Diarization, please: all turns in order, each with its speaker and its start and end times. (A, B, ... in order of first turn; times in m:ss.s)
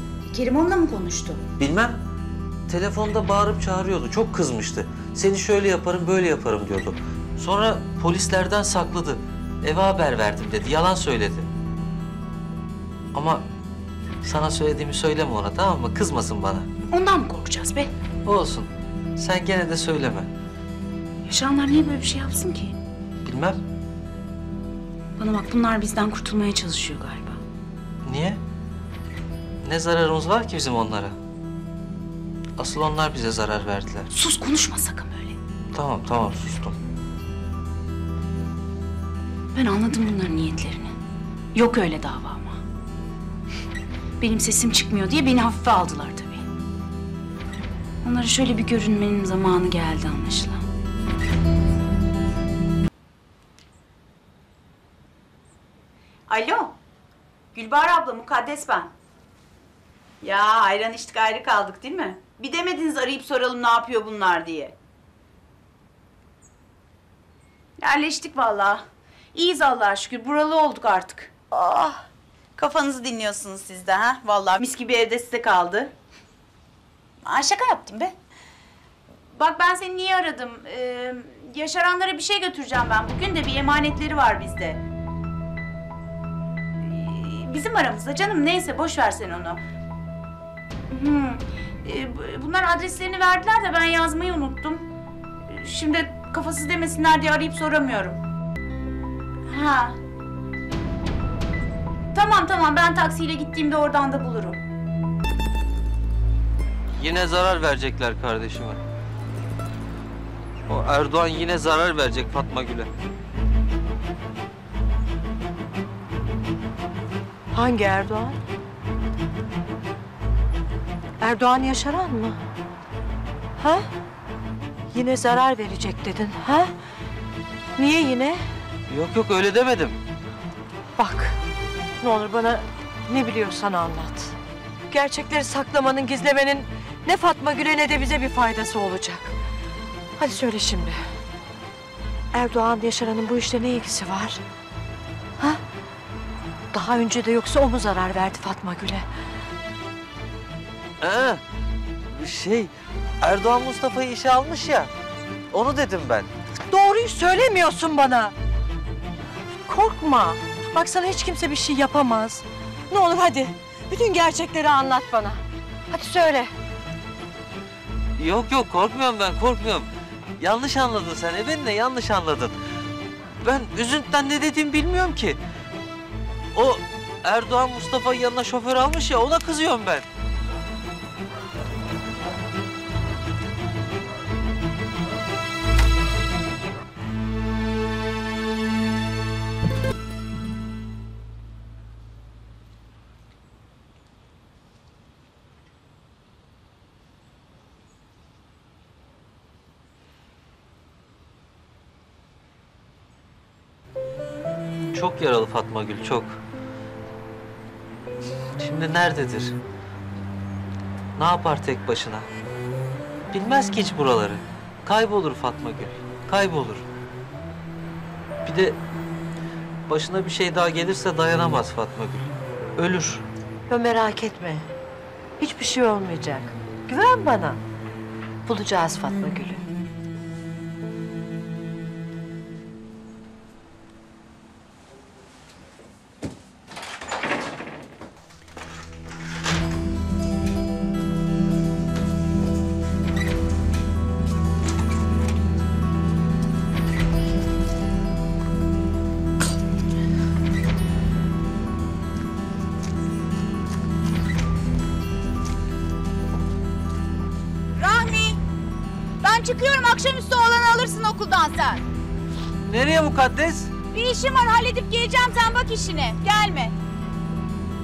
0:00.3-0:01.4 A
0:01.6-0:02.0 B
0:02.7-0:11.5 B
0:13.1-0:13.4 B
0:14.2-0:16.7 B
0:16.9-0:17.9 A
0:18.2-0:20.3 B
0:21.3-0:22.8 A
0:23.2-0:23.6 B
0:25.2-0:27.4 A
0:28.0-0:28.4 B
0:29.6-0:31.2 B
0:32.6-0:34.1 B
0:34.1-0:35.4 A
0:35.7-0:36.8 B
0:39.5-0:40.9 A
0:41.5-0:42.6 A
0:44.2-0:46.4 A
0:48.0-0:50.6 A
0:56.3-0:56.8 A
0:57.5-0:58.9 A
1:00.2-1:04.8 A
1:07.8-1:08.8 A
1:09.3-1:12.0 A
1:12.6-1:15.9 A
1:17.2-1:18.1 A
1:19.3-1:24.8 A
1:26.8-1:29.6 A
1:30.9-1:34.9 A
1:35.5-1:38.2 A
1:39.5-1:40.0 A
1:42.1-1:44.6 A
1:47.0-1:48.8 B
1:50.7-1:52.9 B
1:57.5-1:58.4 C
2:01.2-2:02.5 C
2:03.6-2:03.9 C
2:04.9-2:06.7 C
2:07.8-2:08.5 C
2:08.9-2:10.0 B
2:11.0-2:11.4 C
2:12.0-2:14.4 C
2:14.9-2:19.4 C
2:20.2-2:21.1 C
2:22.3-2:24.4 C
2:26.7-2:29.1 C
2:31.0-2:31.4 B
2:32.1-2:34.9 B
2:35.5-2:36.3 B
2:36.6-2:38.4 C
2:39.7-2:46.5 C
2:48.2-2:49.9 B
2:50.4-2:52.6 B
2:53.4-2:55.4 B
2:56.5-3:00.1 B
3:24.9-3:26.4 B
3:28.6-3:29.6 B
3:31.2-3:32.3 B
3:33.3-3:36.8 B
3:38.4-3:38.8 B
3:39.9-3:43.2 B
3:43.7-3:44.7 C
3:45.4-3:47.6 C
3:48.4-3:49.6 C
4:17.8-4:18.4 A
4:19.2-4:21.8 A
4:22.6-4:23.7 B
4:23.9-4:26.8 A